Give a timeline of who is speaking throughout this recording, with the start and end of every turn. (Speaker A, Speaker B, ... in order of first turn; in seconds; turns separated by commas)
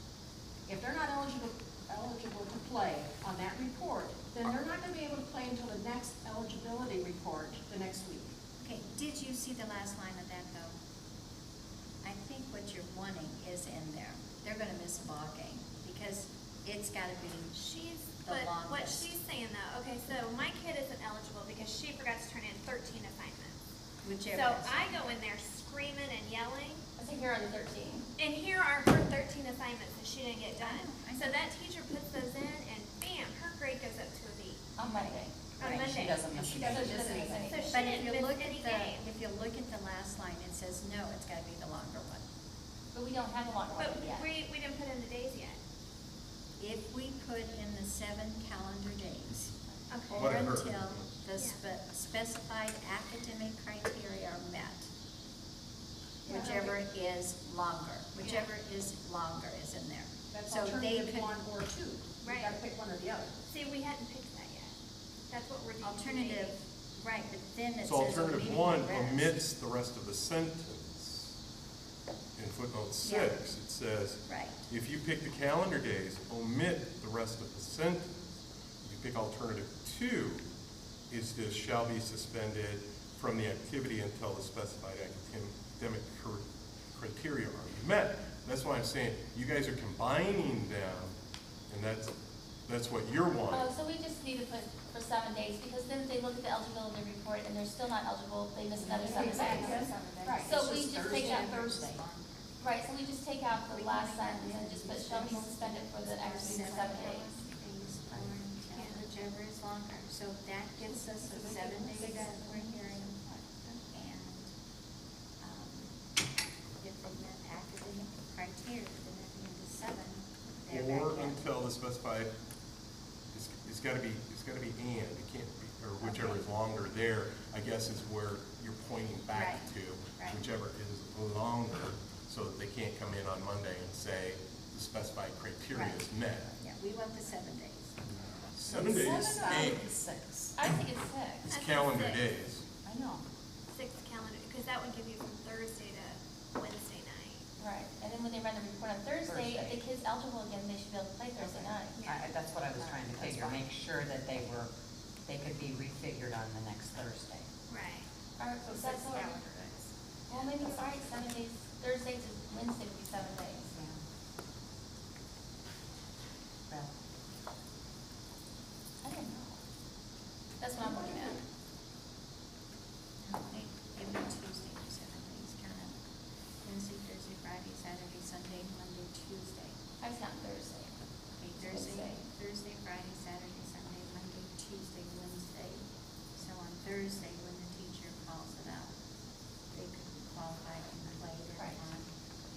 Speaker A: 0.7-8.3, Speaker B: 8.6-10.8, Speaker B: 12.0-17.6, Speaker C: 17.6-23.6, Speaker B: 18.2-19.1, Speaker B: 24.0-25.1, Speaker C: 24.3-26.8, Speaker D: 27.0-28.1, Speaker C: 28.2-34.6, Speaker B: 30.6-31.4, Speaker D: 34.8-35.5, Speaker B: 34.9-35.3, Speaker C: 35.6-36.6, Speaker E: 35.6-37.5, Speaker D: 36.5-37.9, Speaker C: 37.4-39.0, Speaker B: 37.7-42.2, Speaker D: 42.9-44.3, Speaker C: 43.7-45.6, Speaker B: 46.6-49.5, Speaker C: 49.9-50.2, Speaker B: 50.1-54.9, Speaker F: 50.1-51.1, Speaker B: 56.2-61.3, Speaker A: 56.2-56.7, Speaker C: 58.2-58.5, Speaker A: 60.3-63.3, Speaker C: 62.2-62.6, Speaker C: 63.5-64.7, Speaker C: 65.3-66.6, Speaker B: 65.8-69.4, Speaker F: 67.8-71.3, Speaker F: 72.3-78.1, Speaker B: 73.0-73.5, Speaker B: 74.2-74.6, Speaker F: 78.8-80.4, Speaker F: 81.1-91.2, Speaker F: 91.7-92.1, Speaker F: 92.7-93.7, Speaker D: 93.5-99.9, Speaker B: 98.8-100.2, Speaker A: 98.9-102.0, Speaker D: 100.4-101.7, Speaker B: 101.0-102.6, Speaker D: 102.6-107.4, Speaker B: 103.5-113.2, Speaker C: 108.7-109.0, Speaker A: 110.8-113.6, Speaker B: 113.9-114.5, Speaker B: 115.4-116.0, Speaker B: 116.8-121.5, Speaker F: 120.7-122.3, Speaker F: 123.3-136.5, Speaker B: 126.0-126.4, Speaker B: 129.3-130.4, Speaker B: 135.7-136.0, Speaker B: 136.6-138.9, Speaker F: 138.4-139.9, Speaker E: 138.7-140.5, Speaker D: 138.9-139.2, Speaker A: 139.0-140.0, Speaker D: 140.5-141.5, Speaker F: 141.4-142.6, Speaker C: 141.5-142.2, Speaker E: 142.8-143.2, Speaker C: 143.7-147.4, Speaker D: 147.6-152.1, Speaker E: 149.2-149.8, Speaker E: 151.4-154.7, Speaker C: 151.9-152.3, Speaker A: 152.8-153.6, Speaker E: 155.2-157.5, Speaker C: 157.7-158.1, Speaker D: 158.4-159.4, Speaker A: 158.7-161.1, Speaker D: 160.3-163.8, Speaker E: 163.7-164.0, Speaker D: 169.0-169.6, Speaker D: 170.6-171.4, Speaker B: 173.2-176.0, Speaker B: 176.6-179.8, Speaker D: 180.0-180.9, Speaker B: 181.4-188.9, Speaker D: 181.6-182.2, Speaker B: 189.7-192.1, Speaker D: 191.6-191.8